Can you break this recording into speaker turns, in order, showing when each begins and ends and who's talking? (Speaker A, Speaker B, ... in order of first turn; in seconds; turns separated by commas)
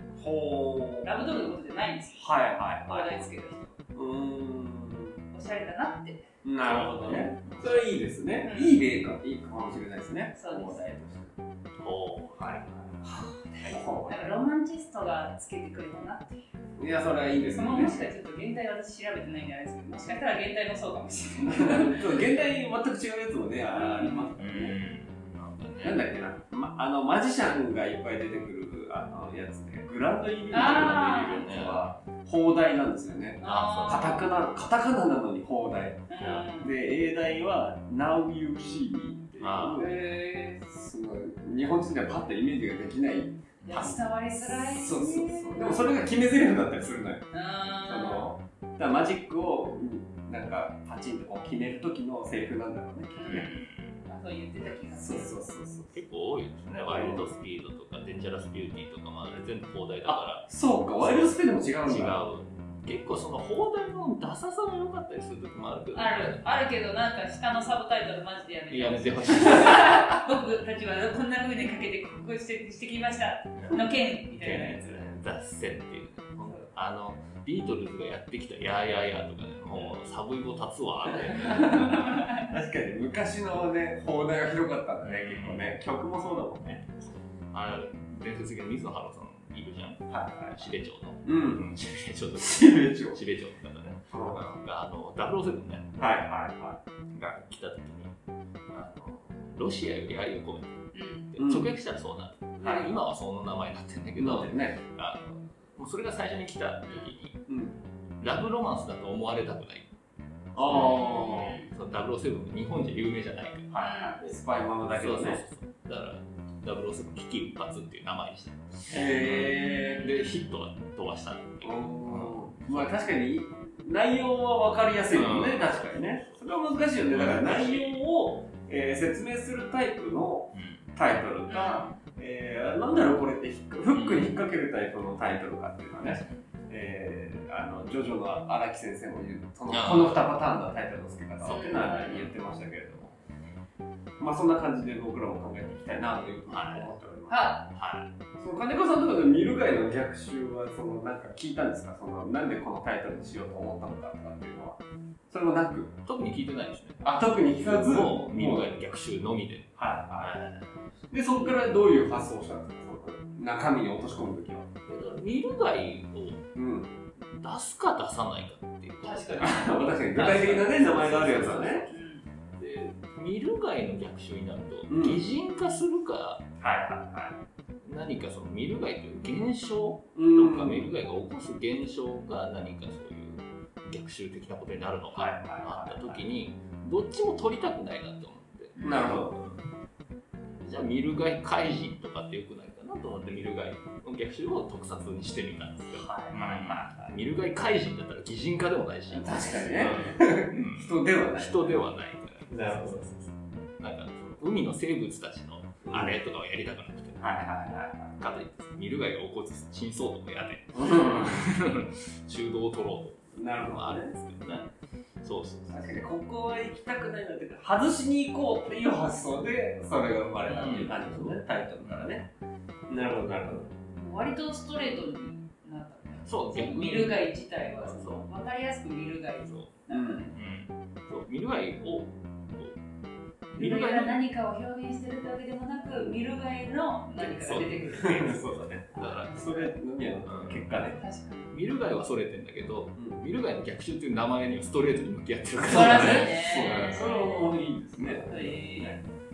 Speaker A: 0.2-1.2, Speaker B: 1.0-3.8, Speaker A: 2.1-3.3, Speaker A: 3.9-5.2, Speaker B: 5.3-6.3, Speaker A: 6.4-11.3, Speaker C: 6.6-7.9, Speaker B: 8.4-8.8, Speaker B: 10.3-10.8, Speaker C: 11.8-12.6, Speaker A: 12.4-12.9, Speaker B: 13.5-16.4, Speaker A: 13.6-14.2, Speaker A: 16.8-18.0, Speaker B: 17.5-22.2, Speaker A: 21.5-24.8, Speaker B: 23.7-24.3, Speaker C: 24.4-26.0, Speaker A: 25.8-53.5, Speaker B: 30.5-31.4, Speaker C: 30.6-32.0, Speaker B: 33.4-34.4, Speaker C: 33.4-34.2, Speaker B: 36.1-36.7, Speaker C: 39.4-39.9, Speaker B: 39.8-40.6, Speaker C: 43.6-44.0, Speaker B: 43.7-46.0, Speaker B: 47.3-48.3, Speaker B: 53.1-55.4, Speaker C: 53.3-53.9, Speaker A: 54.9-56.0, Speaker C: 55.9-60.5, Speaker A: 56.9-57.3, Speaker A: 60.0-62.2, Speaker C: 61.0-66.4, Speaker B: 65.9-75.0, Speaker C: 68.7-70.2, Speaker C: 73.5-82.0, Speaker A: 81.2-86.8, Speaker B: 81.4-82.5, Speaker C: 85.0-85.7, Speaker C: 87.5-96.0, Speaker A: 90.1-90.7, Speaker A: 91.2-91.7, Speaker A: 92.4-93.2, Speaker A: 94.1-94.4, Speaker A: 96.0-96.8, Speaker C: 97.1-98.1, Speaker C: 98.7-107.4, Speaker B: 100.9-101.3, Speaker A: 101.4-101.7, Speaker A: 102.6-102.9, Speaker A: 104.2-104.8, Speaker B: 106.8-107.1, Speaker A: 107.5-107.8, Speaker C: 108.2-109.9, Speaker C: 110.5-123.1, Speaker A: 110.5-111.6, Speaker B: 110.7-111.7, Speaker A: 113.7-115.4, Speaker B: 113.8-114.2, Speaker A: 118.9-120.1, Speaker B: 119.2-120.3, Speaker A: 121.6-143.1, Speaker C: 125.1-126.4, Speaker C: 127.1-128.0, Speaker C: 130.5-130.9, Speaker B: 131.5-132.0, Speaker C: 133.9-134.4, Speaker C: 136.0-136.5, Speaker C: 139.7-140.2, Speaker C: 141.4-142.3, Speaker B: 141.5-142.3, Speaker A: 144.2-147.5, Speaker C: 146.5-146.9, Speaker B: 147.3-147.7, Speaker C: 147.7-148.1, Speaker A: 148.4-156.0, Speaker C: 156.1-157.0, Speaker A: 157.0-158.7, Speaker C: 157.6-160.8, Speaker A: 159.8-160.4, Speaker A: 161.1-164.7, Speaker C: 164.9-166.4, Speaker A: 166.5-166.9, Speaker C: 167.2-169.6, Speaker B: 169.0-170.6, Speaker A: 169.4-171.9, Speaker C: 170.2-172.0, Speaker B: 171.9-172.2, Speaker C: 172.6-176.4, Speaker A: 174.9-175.2, Speaker A: 176.6-177.4, Speaker C: 177.8-189.7, Speaker A: 180.1-180.9, Speaker A: 185.1-186.2, Speaker B: 188.8-189.1, Speaker A: 188.8-189.4, Speaker C: 190.6-207.3, Speaker A: 195.9-197.2, Speaker A: 199.1-201.8, Speaker A: 202.5-203.0, Speaker A: 205.8-206.2, Speaker A: 207.2-208.1, Speaker C: 208.2-214.7, Speaker A: 210.7-211.4, Speaker A: 213.3-214.1, Speaker C: 215.2-215.9, Speaker A: 215.7-222.2, Speaker C: 220.4-222.1, Speaker A: 222.9-223.7, Speaker B: 223.9-230.3, Speaker C: 226.2-227.2, Speaker C: 227.8-228.3, Speaker C: 229.4-229.7, Speaker A: 229.9-230.3, Speaker C: 230.3-232.8, Speaker C: 233.5-234.2, Speaker B: 233.5-238.3, Speaker A: 235.9-236.2, Speaker C: 237.2-239.5, Speaker A: 237.5-241.0, Speaker B: 238.9-239.7, Speaker C: 240.2-240.9, Speaker B: 240.9-241.5, Speaker C: 241.5-246.8, Speaker A: 242.9-243.2, Speaker A: 245.6-249.0, Speaker B: 245.6-247.6, Speaker C: 248.0-248.3, Speaker B: 248.3-248.9